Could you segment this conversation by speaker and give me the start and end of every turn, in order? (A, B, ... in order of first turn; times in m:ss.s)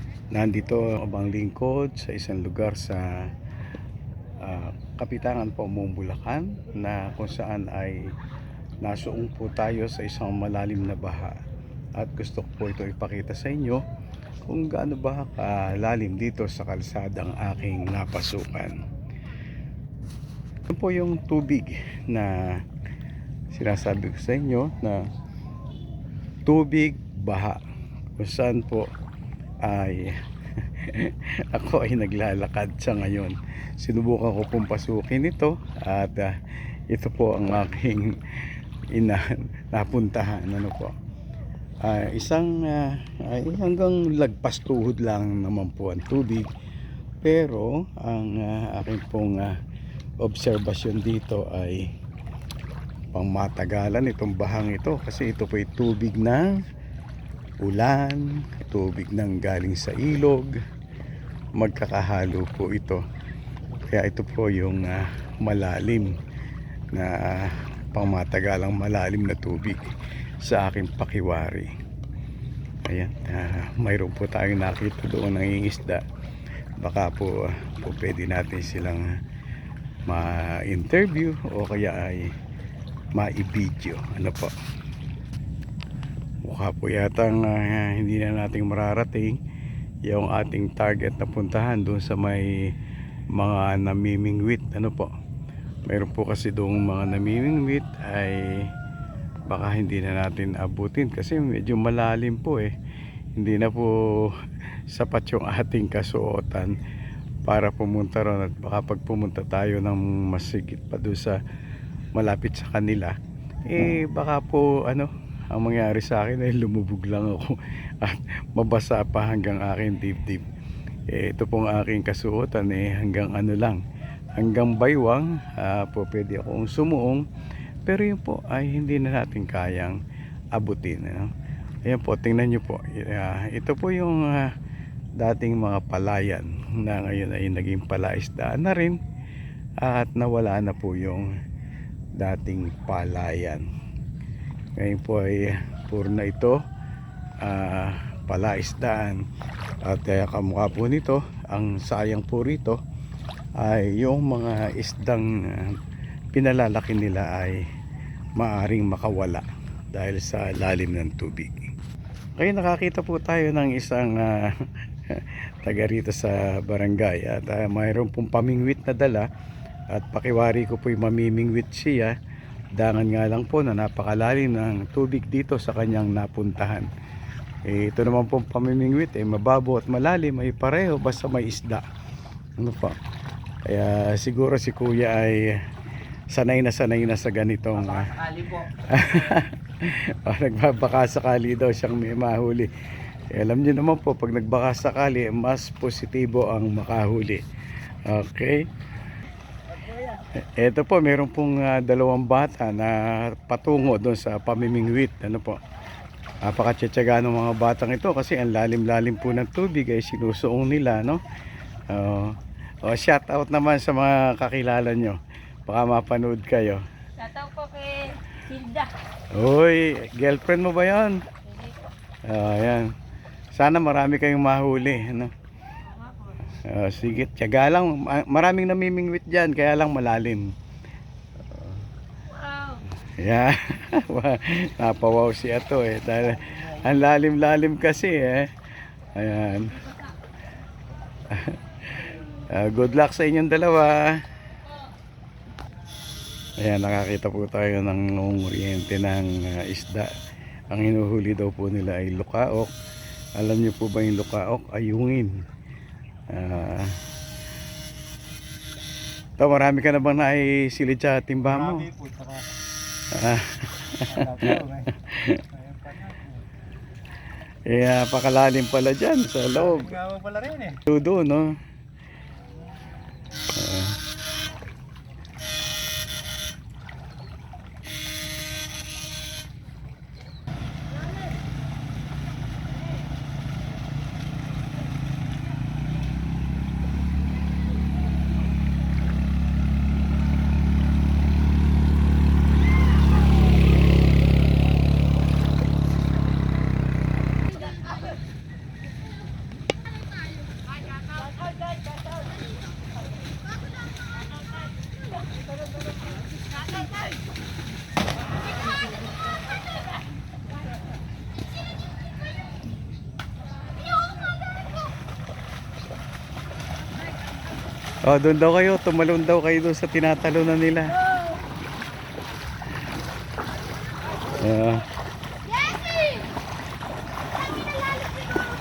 0:00.3-0:03.1 A
0:04.4-0:08.1 A
0:08.8-0:11.4 A
0:12.0-0:13.8 A
0:14.5-0:18.8 A
0:20.7-0:22.4 A
0:23.5-0:25.0 A
0:26.5-0:27.6 A
0:28.2-0:28.9 A
0:29.6-0:36.4 A
0:36.9-0:40.9 A
0:41.8-0:46.5 A
0:47.2-0:49.6 A
0:50.2-0:51.9 A
0:53.1-0:56.5 A
0:57.6-1:00.5 A
1:01.6-1:03.0 A
1:03.8-1:06.1 A
1:06.9-1:09.8 A
1:10.4-1:11.7 A
1:12.9-1:16.0 A
1:16.8-1:19.1 A
1:20.1-1:22.3 A
1:23.2-1:24.5 A
1:26.4-1:29.4 A
1:30.1-1:32.7 A
1:33.4-1:35.1 A
1:35.9-1:38.7 A
1:39.5-1:42.7 A
1:43.4-1:44.3 A
1:44.9-1:46.8 A
1:47.5-1:51.4 A
1:52.2-1:53.2 A
1:53.7-2:00.4 A
2:01.1-2:03.8 A
2:04.4-2:07.2 A
2:07.9-2:10.0 A
2:10.6-2:11.3 A
2:11.9-2:14.5 A
2:15.2-2:19.0 A
2:19.8-2:21.3 A
2:22.2-2:23.7 A
2:24.8-2:26.6 A
2:27.4-2:29.2 A
2:29.8-2:32.8 A
2:33.6-2:35.8 A
2:36.3-2:37.6 A
2:38.4-2:41.7 A
2:42.4-2:49.3 A
2:49.9-2:52.2 A
2:52.8-2:56.9 A
2:57.7-3:01.8 A
3:02.6-3:03.0 A
3:03.6-3:05.6 A
3:06.3-3:12.7 A
3:08.0-3:08.6 B
3:13.3-3:17.4 A
3:18.0-3:18.6 A
3:20.4-3:25.6 A
3:26.4-3:31.2 A
3:31.9-3:36.8 A
3:37.2-3:39.0 C
3:39.3-3:41.3 A
3:41.5-3:41.8 C
3:42.2-3:42.9 A
3:43.5-3:45.3 A
3:46.5-3:50.5 A
3:53.0-4:00.0 A
4:01.3-4:04.2 A
4:06.6-4:10.1 A
4:10.7-4:12.7 A
4:13.4-4:15.3 A
4:16.3-4:17.0 A
4:19.4-4:21.9 A
4:21.5-4:22.5 B
4:23.1-4:25.4 A
4:24.1-4:25.0 B
4:25.5-4:26.4 B
4:27.7-4:30.0 A
4:29.6-4:30.8 B
4:30.8-4:31.6 A
4:33.5-4:34.0 A
5:01.2-5:01.8 C
5:18.0-5:21.0 A
5:24.3-5:24.8 A